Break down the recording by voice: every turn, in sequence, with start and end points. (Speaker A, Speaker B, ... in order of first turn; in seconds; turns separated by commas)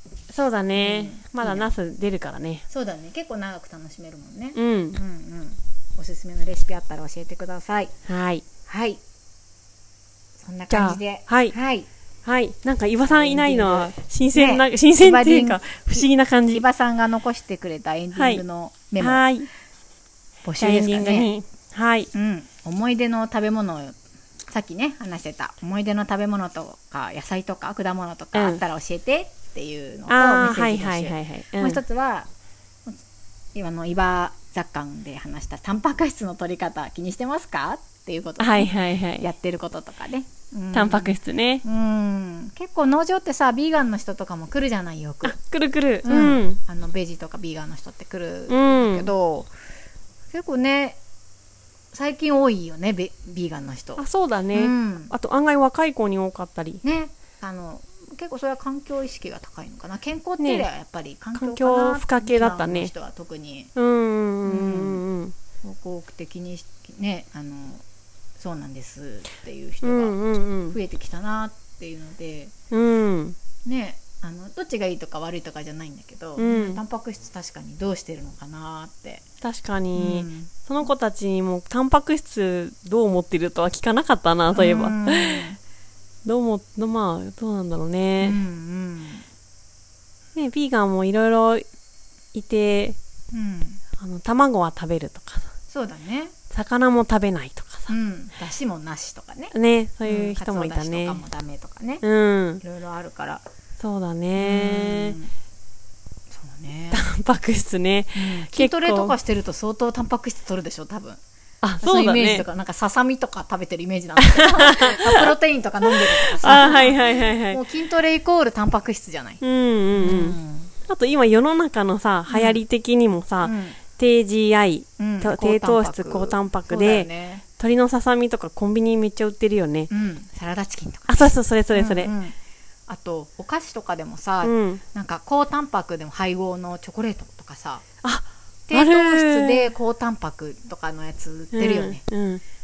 Speaker A: 0.3-2.6, Speaker B: 0.7-1.7, Speaker B: 2.7-7.9, Speaker A: 4.5-5.0, Speaker A: 8.1-8.4, Speaker B: 8.7-9.0, Speaker B: 10.4-11.9, Speaker A: 10.7-11.5, Speaker A: 12.2-16.6, Speaker B: 13.0-19.3, Speaker A: 18.1-18.4, Speaker A: 19.0-19.5, Speaker B: 20.4-21.3, Speaker A: 20.6-22.1, Speaker B: 22.1-23.9, Speaker B: 24.5-32.3, Speaker A: 28.3-28.6, Speaker A: 30.1-31.8, Speaker B: 33.5-45.4, Speaker A: 38.4-39.3, Speaker A: 40.7-41.6, Speaker A: 45.2-46.6, Speaker B: 46.0-49.5, Speaker A: 48.5-49.1, Speaker B: 50.3-51.0, Speaker B: 51.9-55.1, Speaker A: 54.0-56.8, Speaker B: 56.8-63.7, Speaker A: 60.4-60.7, Speaker A: 61.3-62.9, Speaker A: 63.7-65.3, Speaker B: 64.4-65.0, Speaker B: 65.6-67.8, Speaker B: 68.4-72.5, Speaker A: 69.8-70.8, Speaker A: 72.7-73.3, Speaker B: 73.6-79.2, Speaker A: 76.4-76.8, Speaker A: 79.4-85.5, Speaker B: 79.9-80.5, Speaker B: 84.5-85.6, Speaker A: 86.2-88.4, Speaker B: 88.2-89.2, Speaker A: 90.3-91.6, Speaker A: 92.3-93.0, Speaker B: 93.3-93.8, Speaker A: 94.0-95.5, Speaker B: 95.7-96.3, Speaker A: 96.5-97.9, Speaker B: 97.9-102.0, Speaker A: 99.5-101.2, Speaker A: 102.0-102.6, Speaker B: 102.6-103.4, Speaker A: 103.8-105.2, Speaker B: 104.4-105.3, Speaker B: 106.3-107.1, Speaker A: 106.9-109.2, Speaker B: 108.1-111.2, Speaker A: 111.6-112.4, Speaker B: 111.8-119.4, Speaker A: 114.3-114.9, Speaker A: 116.4-117.6, Speaker A: 119.4-129.9, Speaker B: 120.0-120.7, Speaker B: 122.3-122.6, Speaker B: 123.4-123.8, Speaker B: 125.0-127.4, Speaker B: 129.9-132.3, Speaker A: 131.1-132.1, Speaker B: 132.9-137.8, Speaker A: 134.4-134.8, Speaker A: 138.0-139.7, Speaker B: 138.7-142.0, Speaker A: 141.5-142.4